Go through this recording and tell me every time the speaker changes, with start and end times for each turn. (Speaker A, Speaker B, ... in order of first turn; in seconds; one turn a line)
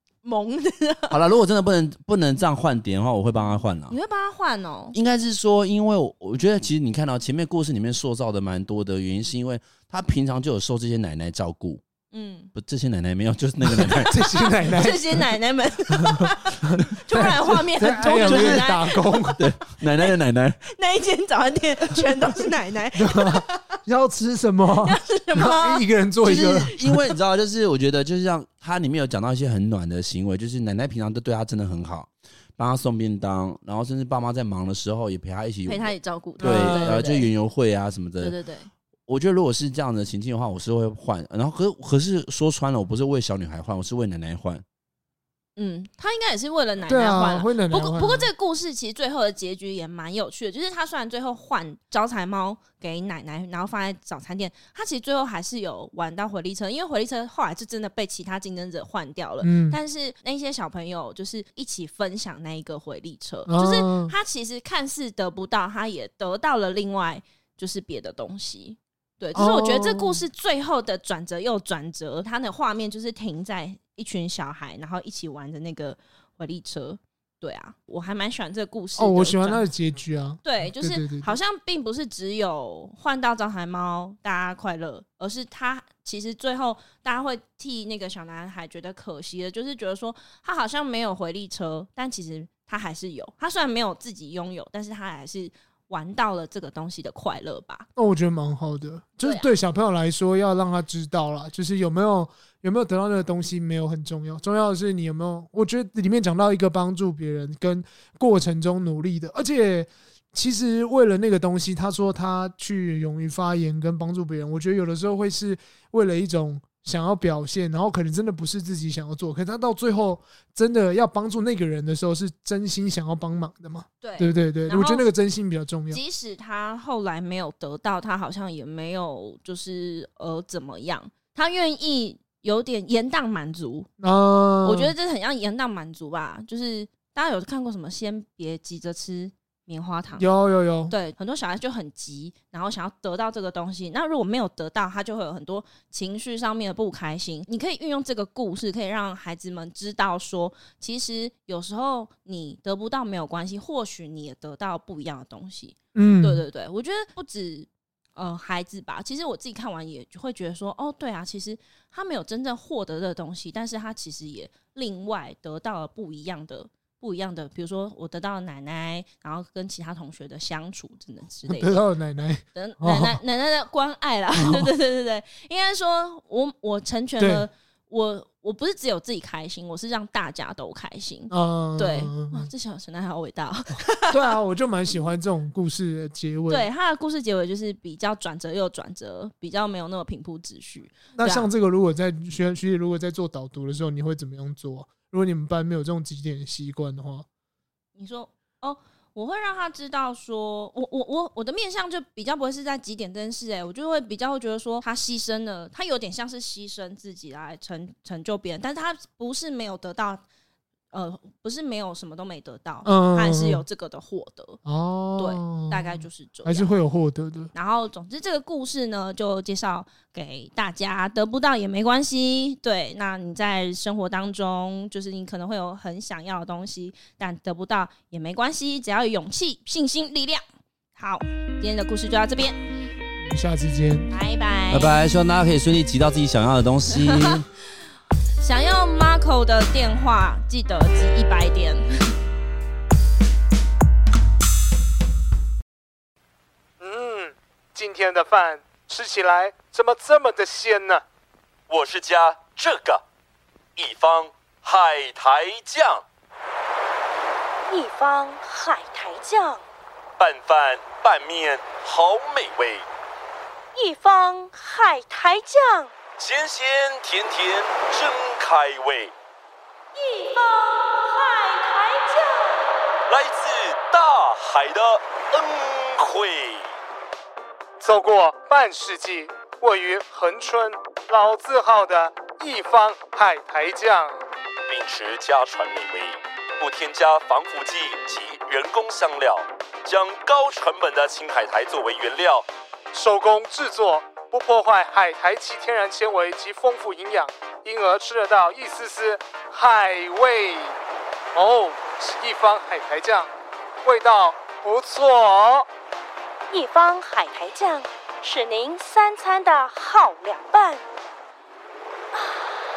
Speaker A: 0.2-1.2
Speaker B: 1.1-4.0
Speaker A: 3.9-5.0
Speaker B: 4.9-11.8
Speaker A: 12.1-12.5
Speaker B: 12.5-14.5
Speaker C: 13.7-15.3
Speaker A: 14.7-20.1
Speaker C: 16.0-19.4
Speaker B: 18.0-20.6
Speaker A: 20.7-23.6
Speaker C: 23.0-26.8
Speaker A: 24.8-25.8
Speaker B: 26.2-38.4
Speaker A: 35.7-37.3
Speaker C: 36.4-37.1
Speaker A: 38.2-38.7
Speaker B: 39.1-44.6
Speaker A: 45.6-79.7
Speaker C: 46.9-48.3
Speaker C: 59.4-59.8
Speaker C: 63.5-64.1
Speaker C: 69.3-70.2
Speaker C: 79.0-81.3
Speaker A: 80.4-97.9
Speaker C: 98.0-126.0
Speaker A: 99.2-99.5
Speaker A: 124.0-125.1
Speaker A: 125.9-133.9
Speaker C: 134.0-134.9
Speaker A: 134.6-140.3
Speaker C: 140.2-140.9
Speaker A: 140.9-171.8
Speaker C: 155.9-156.4
Speaker C: 171.5-173.2
Speaker A: 172.6-184.2
Speaker C: 174.4-174.7
Speaker C: 177.2-177.5
Speaker C: 181.3-182.5
Speaker C: 184.1-186.7
Speaker A: 186.5-191.5
Speaker C: 191.2-197.3
Speaker A: 198.0-210.2
Speaker A: 210.9-214.6
Speaker C: 212.8-213.7
Speaker C: 214.7-215.9
Speaker A: 215.2-216.7
Speaker C: 216.4-217.5
Speaker A: 217.5-230.4
Speaker A: 230.9-232.6
Speaker C: 233.3-234.1
Speaker A: 234.1-235.0
Speaker B: 234.7-237.5
Speaker A: 237.0-237.4
Speaker A: 238.4-242.2
Speaker D: 246.8-251.0
Speaker E: 251.7-253.0
Speaker E: 253.8-256.0
Speaker F: 257.7-259.6
Speaker A: 257.7-259.6
Speaker E: 260.2-262.9
Speaker F: 263.8-265.9
Speaker A: 263.8-265.9
Speaker E: 266.2-269.1
Speaker F: 270.0-272.2
Speaker A: 270.1-272.3
Speaker E: 273.1-276.7
Speaker D: 277.8-284.2
Speaker E: 284.7-292.5
Speaker D: 292.9-300.8
Speaker D: 301.3-303.3
Speaker D: 303.9-305.7
Speaker F: 306.5-310.8
Speaker A: 307.2-307.8
Speaker A: 309.7-310.5